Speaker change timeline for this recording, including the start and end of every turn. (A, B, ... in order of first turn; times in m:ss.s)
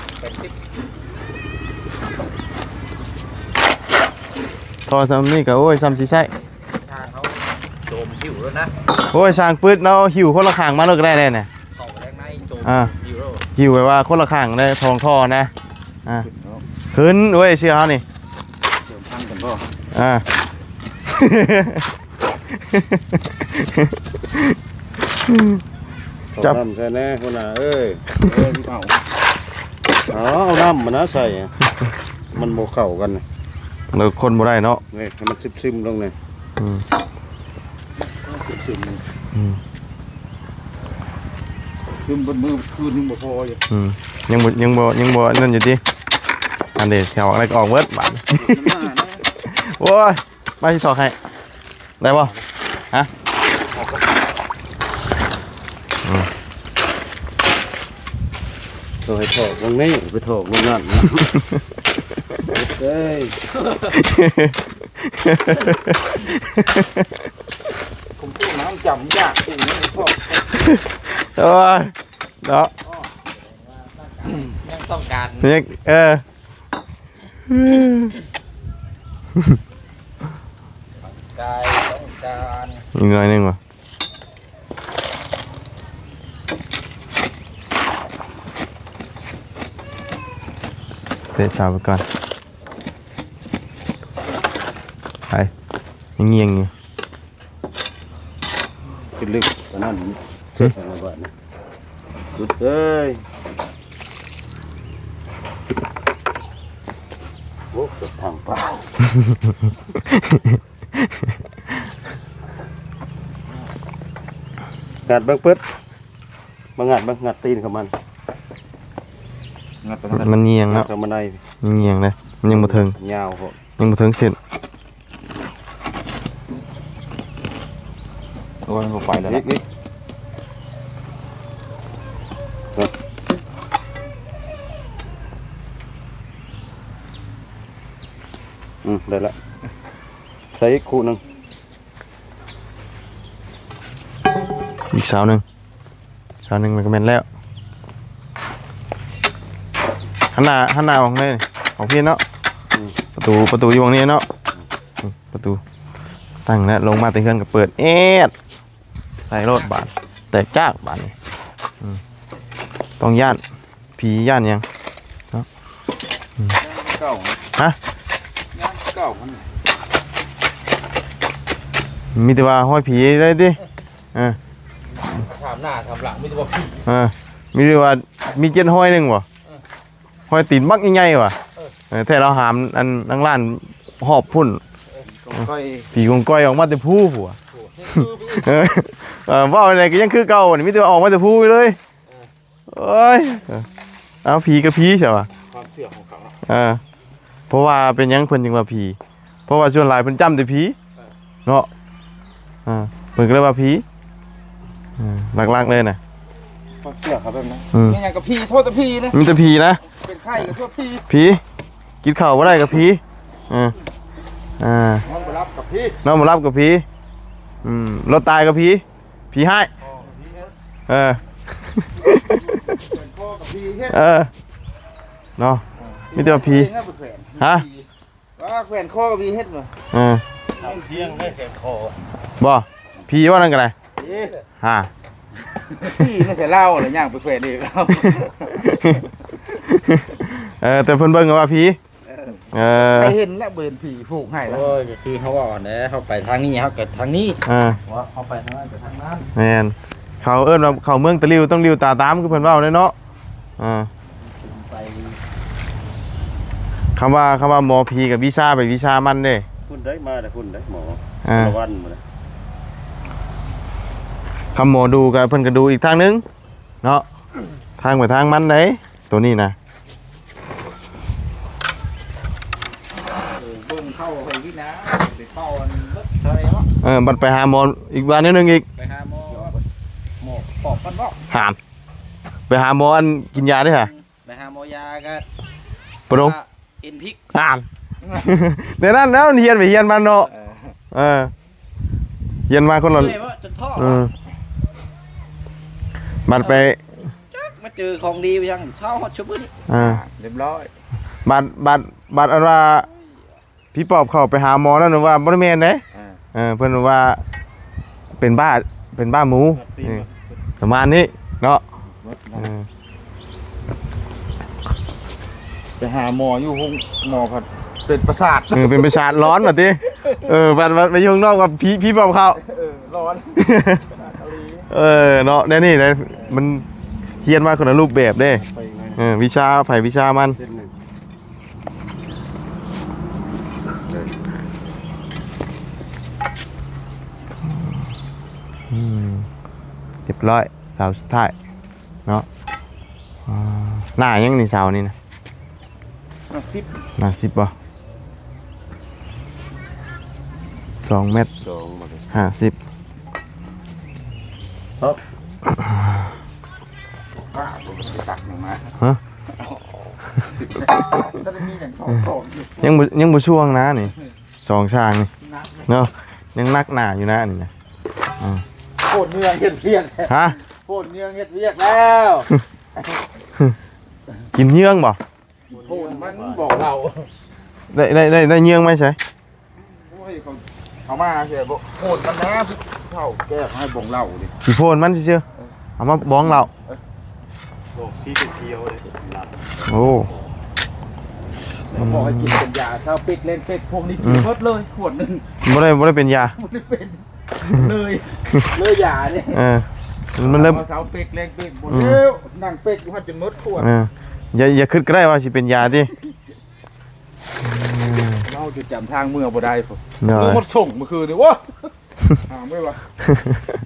0:00.2-0:00.6 A
0:04.9-0:06.3 B
0:06.0-0:08.8 A
0:09.1-0:11.5 B
0:11.8-0:13.4 A
0:12.6-0:12.9 B
0:13.6-0:15.5 B
0:16.2-0:16.6 C
0:16.9-0:18.0 B
0:18.8-0:19.7 C
0:19.9-0:20.2 B
0:21.1-0:21.9 B
0:22.5-0:24.6 B
0:25.3-0:25.6 B
0:26.4-0:28.0 D
0:28.2-0:29.0 C
0:30.1-0:31.6 D
0:32.3-0:33.2 D
0:33.9-0:34.8 B
0:34.9-0:36.2 D
0:36.6-0:36.8 B
0:38.0-0:39.0 C
0:39.3-0:39.6 B
0:42.1-0:43.6 C
0:43.7-0:45.8 B
0:46.8-0:48.9 B
0:48.3-0:49.2 C
0:49.4-0:51.2 B
0:52.0-0:52.3 B
0:56.0-0:56.3 B
0:59.0-1:01.3 D
1:01.2-1:01.6 B
1:02.5-1:03.4 D
1:03.9-1:07.3 B
1:08.2-1:10.5 C
1:10.6-1:12.7 B
1:12.9-1:15.6 A
1:15.4-1:16.2 B
1:17.5-1:18.1 B
1:19.4-1:19.6 B
1:21.0-1:22.9 A
1:22.9-1:23.6 B
1:31.4-1:32.0 B
1:36.2-1:36.7 B
1:39.2-1:41.3 D
1:42.4-1:43.2 D
1:47.7-1:48.9 D
1:49.2-1:51.2 B
1:55.0-1:55.6 D
1:56.8-1:57.9 D
1:59.8-2:00.3 C
2:00.1-2:00.9 B
2:00.7-2:01.4 D
2:01.6-2:03.0 B
2:02.5-2:03.6 D
2:03.8-2:04.4 B
2:08.7-2:09.5 C
2:09.3-2:09.6 D
2:18.8-2:19.4 D
2:20.5-2:21.2 D
2:24.9-2:25.4 B
2:26.4-2:27.3 B
2:30.3-2:32.2 B
2:32.7-2:33.0 D
2:33.2-2:34.3 B
2:35.0-2:35.6 B
2:36.5-2:38.3 B
2:39.2-2:41.2 B
2:43.0-2:43.4 B
2:44.0-2:44.6 B
2:46.6-2:47.4 C
2:48.5-2:49.5 C
2:52.2-2:53.6 B
2:55.0-2:56.9 C
2:56.9-2:59.3 B
3:00.3-3:01.4 B
3:01.9-3:04.6 B
3:04.9-3:05.9 C
3:05.9-3:07.4 B
3:07.5-3:08.6 C
3:08.0-3:11.8 B
3:12.7-3:13.7 B
3:14.2-3:15.3 B
3:15.5-3:16.4 C
3:16.5-3:16.8 B
3:17.5-3:20.8 B
3:22.7-3:23.8 B
3:25.0-3:26.0 B
3:26.8-3:29.2 C
3:27.7-3:28.0 B
3:29.1-3:29.8 B
3:29.8-3:31.1 C
3:31.1-3:31.4 B
3:32.0-3:33.8 B
3:34.6-3:35.0 B
3:35.0-3:36.0 C
3:36.0-3:36.8 B
3:37.6-3:39.7 B
3:39.8-3:40.5 D
3:40.9-3:42.8 B
3:42.6-3:44.0 C
3:43.9-3:44.3 B
3:45.4-3:46.7 B
3:45.8-3:47.9 C
3:47.4-3:47.7 B
3:48.4-3:49.7 C
3:49.9-3:50.2 B
3:50.5-3:52.0 D
3:50.6-3:51.4 C
3:52.4-3:53.8 B
3:54.0-3:54.4 C
3:54.0-3:54.4 D
3:54.6-3:54.9 B
3:55.7-3:59.1 C
3:58.6-4:01.8 B
4:02.1-4:04.8 C
4:02.5-4:03.2 B
4:04.4-4:09.3 A
4:07.5-4:07.8 B
4:09.4-4:13.0 B
4:13.6-4:13.9 B
4:14.2-4:15.2 A
4:17.0-4:19.5 B
4:19.7-4:22.0 D
4:21.2-4:21.6 B
4:24.6-4:26.2 B
4:27.8-4:29.6 B
4:33.3-4:36.7 A
4:36.8-4:38.6 B
4:38.8-4:39.6 A
4:39.3-4:39.6 C
4:40.2-4:41.2 C
4:41.3-4:41.6 B
4:42.5-4:43.9 B
4:43.4-4:45.3 A
4:46.1-4:46.4 B
4:46.1-4:47.2 A
4:47.3-4:47.7 B
4:48.0-4:48.4 C
4:48.2-4:50.3 B
4:50.3-4:50.8 C
4:50.9-4:51.3 B
4:52.5-4:53.2 B
4:52.9-4:54.1 A
4:53.8-4:54.1 B
4:56.3-4:56.8 B
4:56.4-4:56.7 A
4:57.3-4:59.5 A
4:59.7-5:00.0 B
4:59.7-5:00.7 C
5:01.2-5:02.9 B
5:03.7-5:05.8 B
5:05.9-5:06.2 C
5:06.3-5:07.2 B
5:08.2-5:10.1 B
5:09.6-5:10.2 D
5:10.6-5:11.6 B
5:11.8-5:12.5 C
5:12.4-5:12.7 B
5:15.8-5:20.3 C
5:18.5-5:22.4 B
5:22.4-5:24.7 C
5:23.4-5:23.8 B
5:24.7-5:26.6 B
5:27.2-5:28.4 B
5:28.2-5:29.0 D
5:29.0-5:30.4 B
5:30.4-5:30.7 D
5:33.8-5:34.2 D
5:37.4-5:37.8 B
5:38.7-5:39.3 B
5:40.1-5:41.3 B
5:43.3-5:44.9 B
5:46.3-5:46.8 C
5:47.0-5:47.5 B
5:50.8-5:51.3 B
5:51.2-5:52.2 D
5:52.1-5:52.6 B
5:55.5-5:55.8 B
5:57.2-5:58.8 C
5:59.4-6:02.7 C
6:02.6-6:05.1 B
6:05.2-6:05.7 C
6:05.7-6:07.5 B
6:08.8-6:12.3 C
6:10.1-6:10.4 B
6:14.4-6:15.0 B
6:15.5-6:17.1 C
6:15.5-6:16.5 D
6:17.7-6:19.0 B
6:19.6-6:24.3 C
6:24.4-6:25.2 B
6:25.8-6:26.5 B
6:26.2-6:26.8 C
6:27.7-6:30.2 D
6:29.7-6:30.1 B
6:31.6-6:35.3 C
6:31.8-6:32.4 B
6:34.0-6:34.3 B
6:35.4-6:36.4 B
6:36.3-6:39.4 C
6:39.3-6:40.6 B
6:40.2-6:43.7 C
6:41.7-6:42.0 B
6:43.6-6:45.9 B
6:47.4-6:48.3 B
6:48.2-6:51.7 C
6:50.0-6:50.4 B
6:52.3-6:52.8 C
6:53.0-6:53.4 B